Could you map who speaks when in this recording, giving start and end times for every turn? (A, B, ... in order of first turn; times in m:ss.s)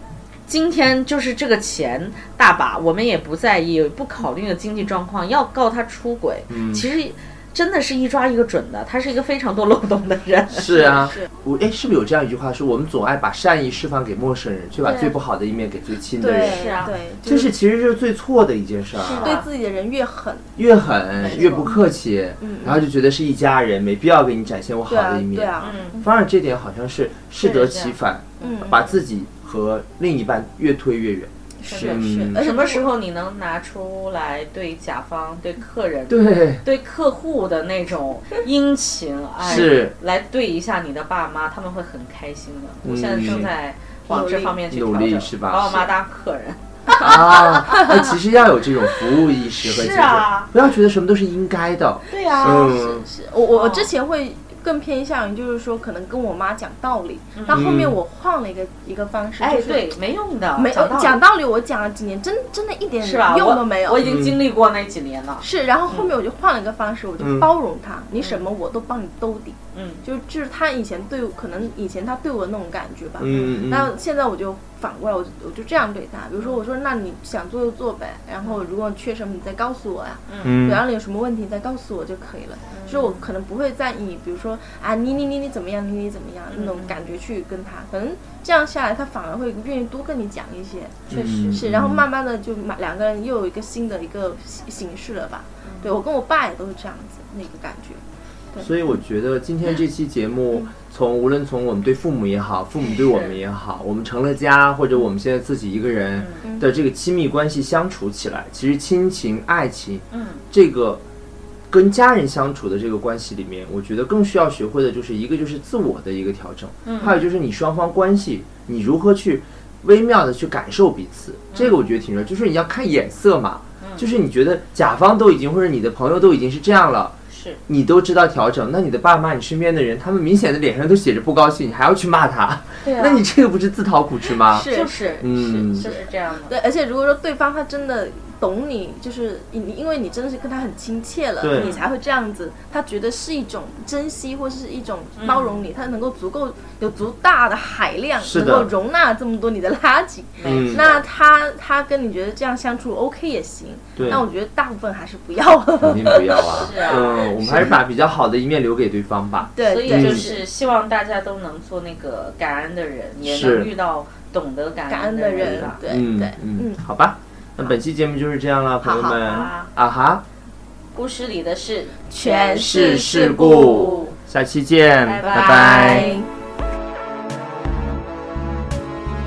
0:00.5-0:11.0 A
0:06.5-0:06.8 B
0:10.5-0:19.4 B
0:10.9-0:11.3 C
0:14.8-0:15.2 A
0:16.2-0:17.5 C
0:16.4-0:16.9 A
0:19.0-0:19.5 A
0:19.2-0:20.6 C
0:20.6-0:32.4 B
0:21.2-0:21.7 A
0:21.2-0:21.8 C
0:22.4-0:22.8 C
0:24.9-0:26.1 C
0:25.6-0:26.0 A
0:27.4-0:28.6 A
0:28.4-0:28.8 C
0:31.6-0:32.9 C
0:31.7-0:48.0 A
0:36.1-0:36.6 B
0:39.4-0:40.0 B
0:42.8-0:43.5 B
0:44.1-0:44.6 C
0:44.7-0:45.9 B
0:47.0-0:53.1 B
0:49.6-0:50.5 A
0:52.1-0:52.7 A
0:52.3-0:59.9 C
0:53.5-0:53.9 A
0:57.4-0:57.7 A
0:57.5-0:58.0 B
0:59.4-1:01.2 A
1:00.6-1:04.0 C
1:03.0-1:06.1 A
1:04.0-1:04.4 B
1:05.4-1:38.8 C
1:07.2-1:07.5 B
1:09.7-1:10.0 A
1:13.2-1:13.9 B
1:20.3-1:20.5 A
1:20.4-1:20.8 B
1:22.7-1:23.3 A
1:26.5-1:27.0 A
1:31.1-1:32.0 B
1:38.6-1:51.0 B
1:42.9-1:43.4 A
1:46.2-1:46.4 A
1:50.1-1:50.4 A
1:51.7-2:07.2 B
1:56.8-1:57.2 A
2:01.5-2:01.8 A
2:07.3-2:07.6 A
2:07.7-2:14.7 B
2:12.8-2:13.2 A
2:14.4-2:15.0 C
2:14.7-2:16.6 A
2:15.2-2:15.9 B
2:15.8-2:37.8 C
2:21.4-2:21.8 B
2:21.5-2:21.9 A
2:25.2-2:25.6 A
2:28.2-2:28.7 B
2:30.4-2:31.0 A
2:30.4-2:30.9 B
2:34.0-2:34.2 B
2:35.8-2:40.3 B
2:36.5-2:37.3 A
2:39.6-2:40.4 C
2:39.6-2:45.8 A
2:43.2-2:43.7 B
2:44.9-2:46.8 C
2:45.4-2:50.2 B
2:48.8-2:49.3 C
2:49.1-2:49.7 A
2:50.9-2:54.1 A
2:52.1-2:54.1 C
2:52.6-2:56.2 B
2:55.0-2:56.3 A
2:55.4-2:56.3 C